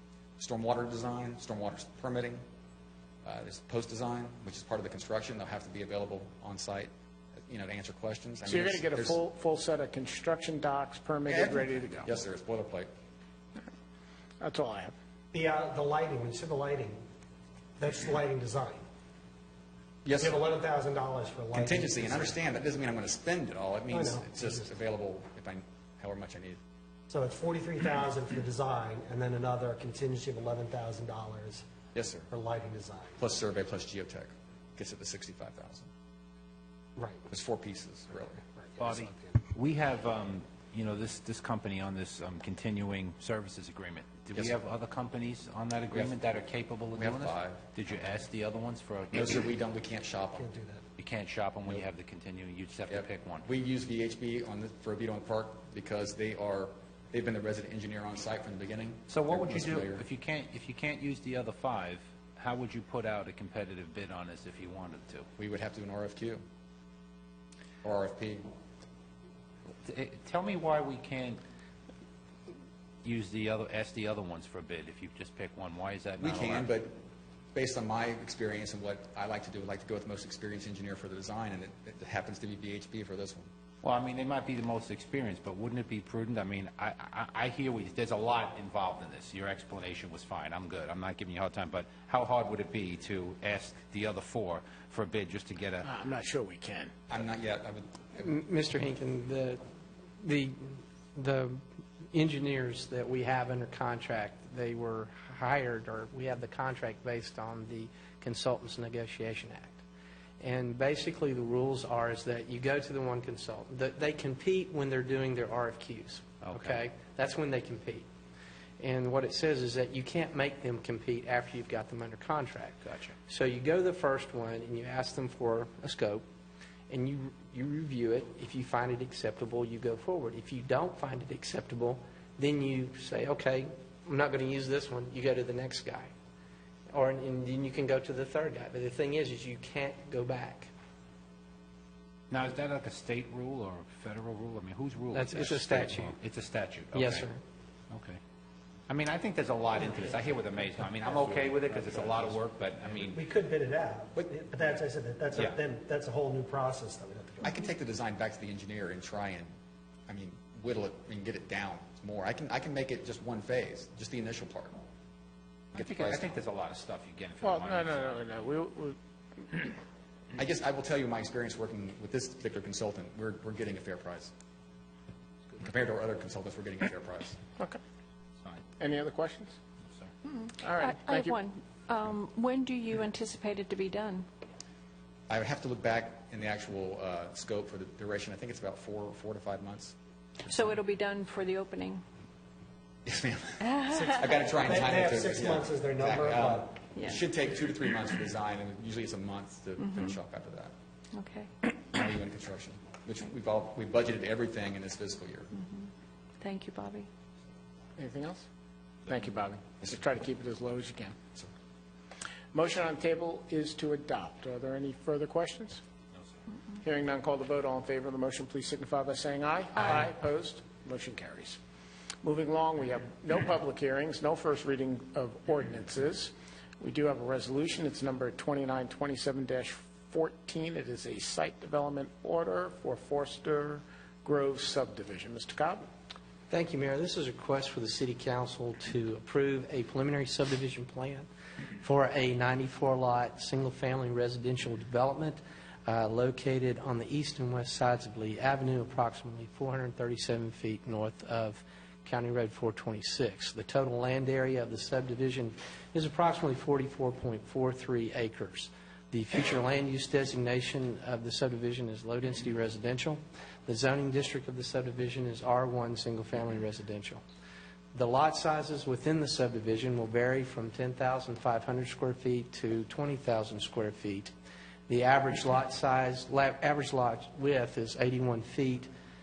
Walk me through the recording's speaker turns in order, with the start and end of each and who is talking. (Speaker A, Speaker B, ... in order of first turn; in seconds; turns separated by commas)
Speaker A: 0.4-2.4, Speaker A: 3.2-9.2, Speaker B: 8.5-12.1, Speaker A: 11.3-12.9, Speaker B: 14.4-14.9, Speaker C: 15.3-17.0, Speaker C: 17.8-18.9, Speaker A: 20.0-20.4, Speaker C: 20.2-22.4, Speaker A: 21.5-26.6, Speaker C: 23.9-24.7, Speaker C: 27.1-31.6, Speaker A: 31.9-32.3, Speaker C: 32.3-33.2, Speaker A: 33.2-35.9, Speaker C: 37.0-37.2, Speaker A: 37.3-38.4, Speaker C: 38.6-39.4, Speaker D: 38.8-49.4, Speaker A: 47.0-47.6, Speaker A: 49.1-50.5, Speaker C: 50.4-50.8, Speaker D: 51.0-53.5, Speaker A: 52.9-60.0, Speaker D: 59.1-65.3, Speaker A: 65.4-66.4, Speaker A: 67.8-68.5, Speaker D: 69.8-71.4, Speaker D: 73.0-76.7, Speaker A: 76.2-77.0, Speaker A: 77.5-83.5, Speaker D: 83.8-95.9, Speaker B: 95.8-96.9, Speaker A: 97.1-98.3, Speaker E: 98.2-99.6, Speaker E: 100.2-109.8, Speaker E: 110.4-118.1, Speaker D: 116.4-116.8, Speaker E: 118.8-126.3, Speaker D: 122.8-123.2, Speaker E: 126.9-136.1, Speaker E: 136.9-140.7, Speaker D: 142.3-147.3, Speaker E: 145.1-146.2, Speaker E: 146.9-147.4, Speaker D: 147.9-148.2, Speaker D: 148.9-153.2, Speaker C: 153.1-157.6, Speaker A: 157.4-159.5, Speaker A: 160.1-164.8, Speaker A: 165.7-166.3, Speaker D: 165.8-168.2, Speaker B: 167.4-169.0, Speaker B: 169.5-169.8, Speaker A: 170.4-174.3, Speaker A: 175.6-177.4, Speaker B: 178.8-179.6, Speaker D: 179.9-180.1, Speaker F: 180.3-184.3, Speaker B: 180.6-181.4, Speaker A: 185.3-189.9, Speaker F: 190.4-192.0, Speaker A: 193.1-200.7, Speaker F: 193.6-194.0, Speaker C: 193.9-196.8, Speaker F: 196.9-197.2, Speaker F: 199.8-200.2, Speaker F: 201.1-201.5, Speaker A: 201.9-205.5, Speaker F: 205.6-205.9, Speaker F: 206.4-207.1, Speaker B: 208.0-208.4, Speaker B: 209.1-211.2, Speaker B: 212.5-215.8, Speaker B: 216.8-221.6, Speaker B: 222.2-235.9, Speaker E: 236.5-241.3, Speaker E: 241.8-267.2, Speaker E: 267.9-274.3, Speaker E: 274.9-278.9